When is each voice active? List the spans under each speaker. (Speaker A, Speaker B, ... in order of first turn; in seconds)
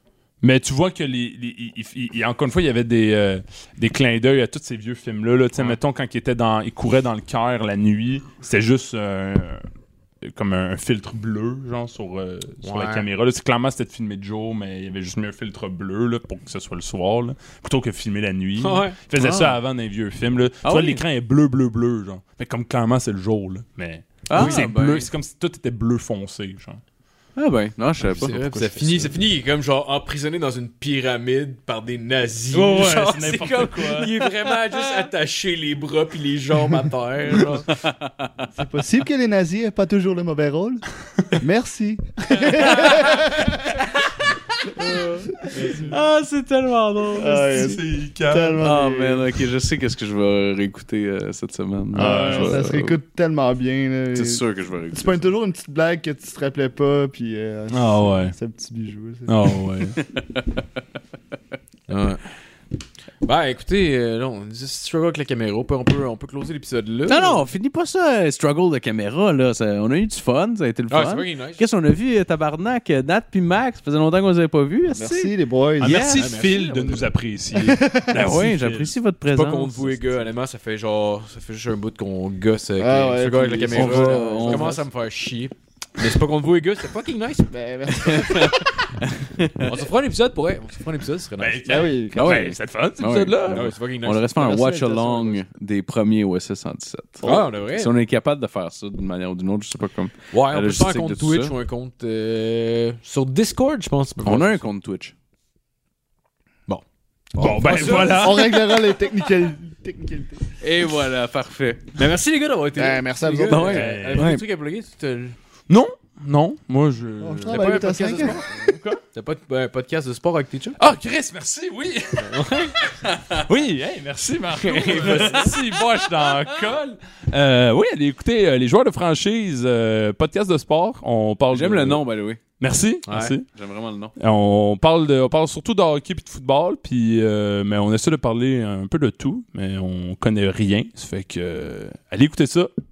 Speaker A: 0.4-9.6, 10.2-26.8, 28.3-28.8, 32.5-34.2, 47.4-48.6, 51.9-52.6, 57.7-58.3, 59.3-60.0, 75.8-78.9, 91.4-93.7, 107.4-108.7, 113.7-114.3, 115.7-119.0, 120.8-132.0, 132.6-133.5, 134.2-142.7
Speaker B: 12.6-13.1, 18.6-19.0, 24.3-24.6, 28.1-37.7, 61.9-62.2, 63.2-67.4, 70.9-71.6, 76.0-77.1, 79.3-88.4, 89.6-92.0, 93.5-94.3, 97.2-97.9, 100.3-104.6, 106.7-108.5, 111.9-115.3, 117.5-120.8, 122.2-122.8, 124.5-125.5, 133.1-133.3
Speaker C: 19.2-19.6, 20.6-21.0, 24.3-25.1, 27.4-29.1, 37.3-38.5, 42.5-43.1, 44.6-47.7, 48.6-53.0, 54.1-55.3, 60.0-60.6, 67.1-76.3, 78.1-80.1, 83.7-84.8, 88.0-89.8, 92.1-101.5, 104.2-105.1, 110.6-112.0, 113.5-114.4, 123.1-123.4, 124.9-126.7, 131.5-132.4, 133.5-134.1
Speaker D: 38.5-43.8, 44.8-45.9, 47.1-49.4, 51.9-59.5, 74.9-76.1, 77.5-78.2, 82.8-84.8, 87.5-88.6, 91.6-92.5, 94.3-95.4, 107.6-110.4, 112.7-113.9, 117.2-118.5